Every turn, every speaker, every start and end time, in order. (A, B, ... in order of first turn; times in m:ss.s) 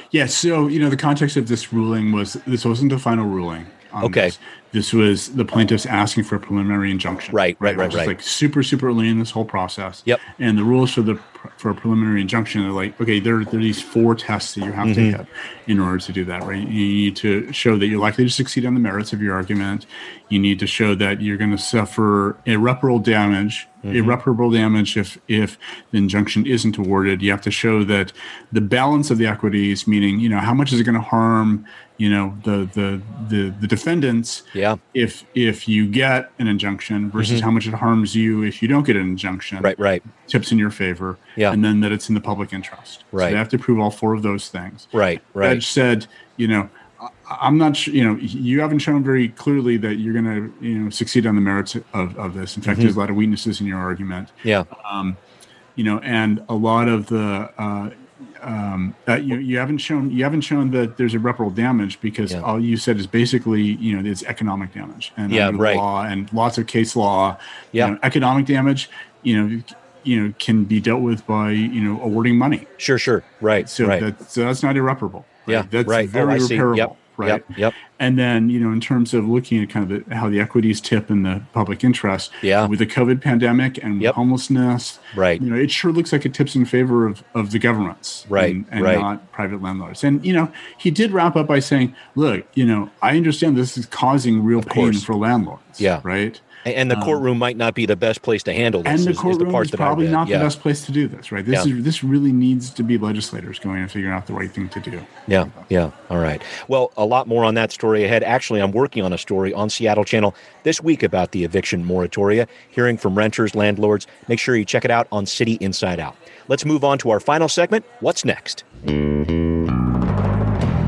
0:00.1-0:55.2 A
0:04.0-0:04.3 B
0:07.3-0:08.1 B
0:14.8-0:15.2 B
0:23.8-0:24.2 B
0:34.5-0:34.8 B
0:37.2-0:37.4 B
0:39.6-0:40.0 B
0:43.1-0:43.4 B
0:44.9-0:45.6 B
0:52.6-0:52.9 B
0:55.8-1:12.7 A
1:05.3-1:05.8 B
1:12.8-1:14.0 B
1:13.6-1:37.2 A
1:15.5-1:17.8 B
1:22.4-1:22.7 B
1:25.1-1:25.4 B
1:28.3-1:29.0 B
1:34.6-1:35.0 B
1:35.8-1:36.0 B
1:36.6-1:40.5 B
1:38.8-1:45.7 A
1:45.3-1:58.6 B